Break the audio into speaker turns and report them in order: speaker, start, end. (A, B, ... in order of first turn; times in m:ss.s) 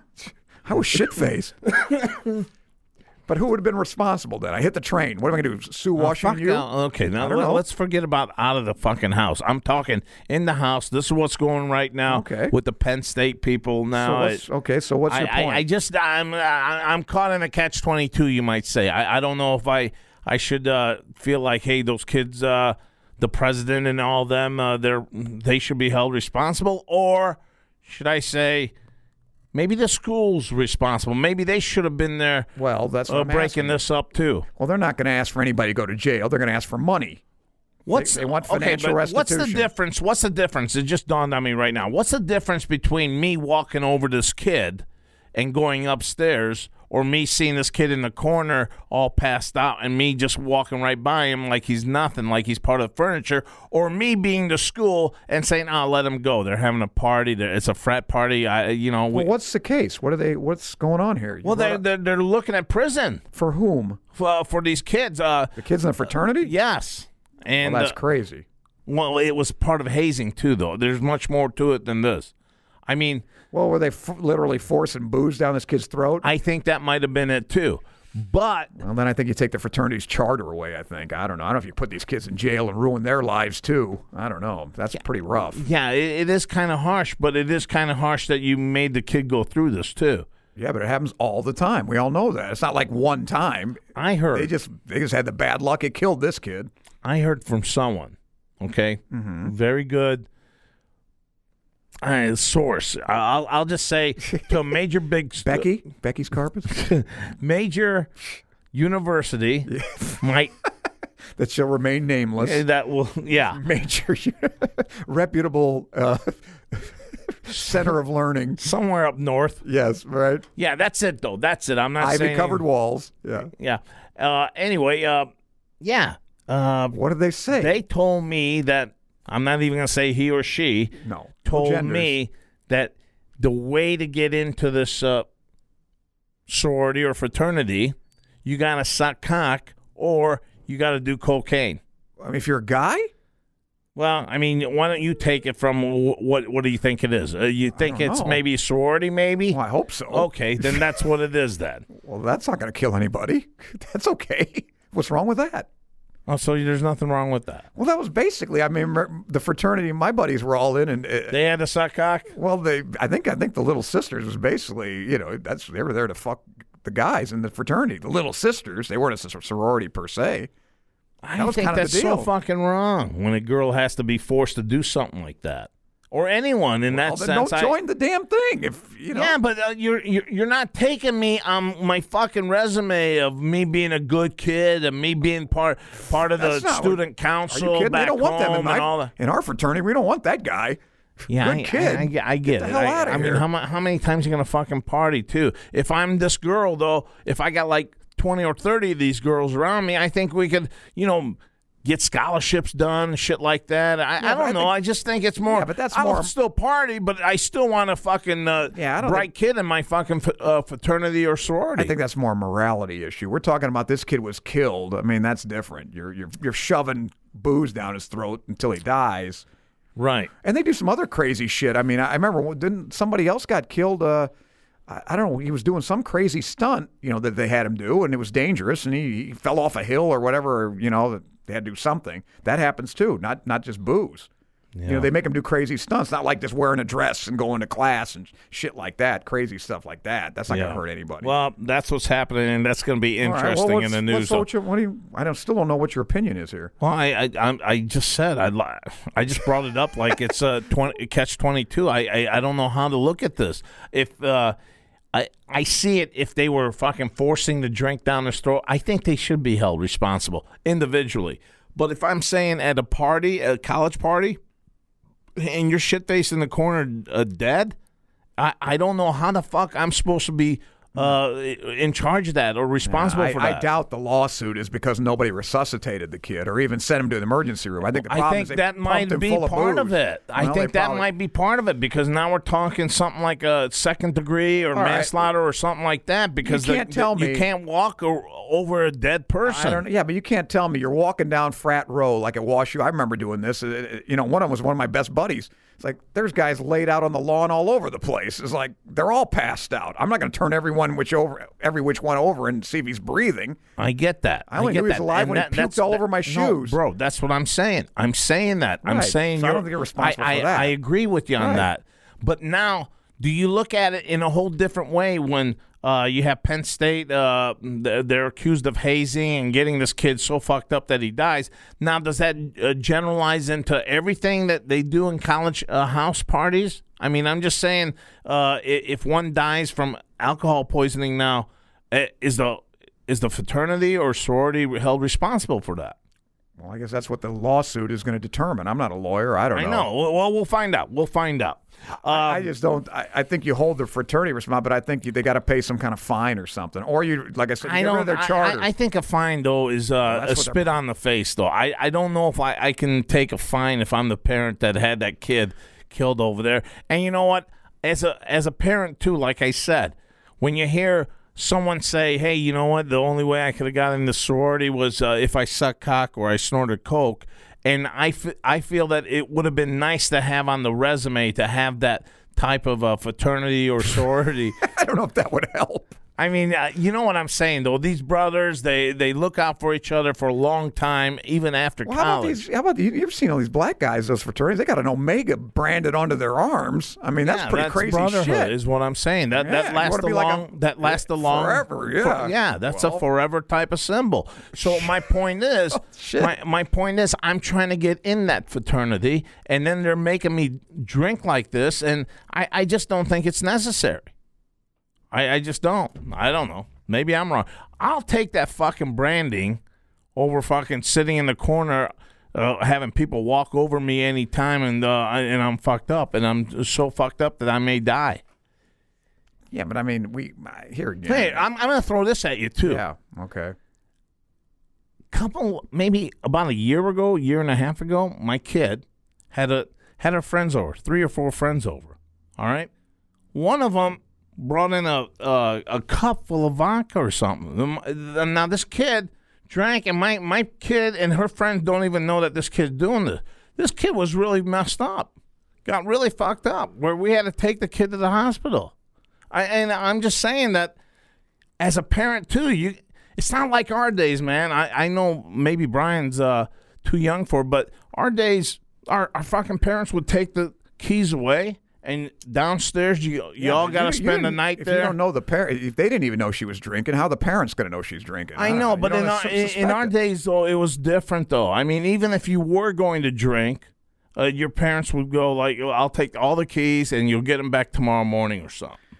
0:00.6-0:01.7 A
0:03.3-0:06.7 A
0:06.0-0:14.4 B
0:07.2-0:07.6 A
0:12.1-0:12.5 A
0:14.0-0:15.6 A
0:15.1-0:28.7 B
0:29.5-0:32.5 B
0:32.6-0:33.8 A
0:33.1-0:34.4 B
0:34.6-0:37.2 A
0:37.8-0:59.3 B
0:37.9-0:39.7 A
0:59.1-1:01.8 A
1:01.4-1:03.2 B
1:03.3-1:04.0 A
1:04.1-1:05.5 B
1:05.6-1:06.5 A
1:06.4-1:08.0 B
1:07.6-1:08.4 A
1:08.9-1:12.3 B
1:12.9-1:13.2 B
1:13.5-1:16.2 A
1:16.2-1:18.7 B
1:18.8-1:25.6 A
1:25.5-1:30.2 B
1:30.6-1:33.8 A
1:34.0-1:34.5 B
1:34.3-1:36.7 A
1:37.0-1:40.3 B
1:39.1-1:39.5 A
1:42.0-1:45.6 B
1:45.4-1:46.7 A
1:46.7-1:48.1 B
1:48.7-1:50.5 B
1:49.7-1:50.2 A
1:51.4-1:52.6 A
1:52.4-1:53.6 B
1:53.5-1:58.6 A
1:58.6-1:59.6 B
1:59.6-2:00.4 A
2:00.6-2:02.6 B
2:02.0-2:03.5 A
2:03.5-2:05.3 B
2:05.8-2:07.0 B
2:06.9-2:07.8 A
2:07.5-2:15.3 B
2:11.0-2:12.1 A
2:16.5-2:21.8 B
2:22.2-2:23.1 A
2:24.0-2:29.6 B
2:27.8-2:28.4 A
2:29.5-2:31.0 A
2:30.1-2:31.8 B
2:31.9-2:35.7 A
2:36.3-2:37.6 B
2:37.8-2:41.4 A
2:41.3-2:42.3 B
2:42.3-2:50.5 A
2:51.2-2:57.7 B
2:51.4-2:52.3 A
2:56.9-2:59.4 A
2:59.1-3:09.1 B
3:06.3-3:10.8 A
3:11.3-3:31.9 B
3:11.3-3:13.4 A
3:24.2-3:24.7 A
3:25.5-3:26.3 A
3:28.7-3:29.3 A
3:31.8-3:39.4 A
3:40.0-3:40.3 B
3:40.4-3:44.3 A
3:44.9-3:54.3 A
3:54.8-3:55.1 B
3:54.8-4:01.3 A
4:00.5-4:04.5 B
4:03.2-4:06.7 A
4:06.8-4:14.6 B
4:15.1-4:24.4 B
4:25.4-4:27.8 B
4:28.4-4:33.6 B
4:32.8-4:41.1 A
4:37.9-4:49.8 B
4:44.7-4:45.2 A
4:46.4-4:47.5 A
4:49.4-5:03.6 A
5:03.8-5:36.0 B
5:04.5-5:06.8 A
5:08.8-5:10.7 A
5:11.4-5:11.7 A
5:36.6-5:39.9 A
5:39.5-5:42.5 B
5:42.0-5:48.7 A
5:47.6-6:14.6 B
5:50.0-5:50.7 A
6:14.6-6:15.9 A
6:16.2-6:22.4 B
6:21.8-6:28.5 A
6:27.2-6:44.1 B
6:29.3-6:33.0 A
6:34.6-6:35.0 A
6:35.7-6:36.3 A
6:45.1-6:49.6 B
6:50.1-6:58.2 B
6:59.5-7:01.4 A
7:01.0-7:02.8 B
7:02.6-7:03.5 A
7:05.1-7:12.7 B
7:13.3-7:25.1 B
7:25.6-7:28.7 B
7:29.3-7:30.7 B
7:31.6-7:44.9 B
7:43.4-7:49.9 A
7:48.4-7:58.8 B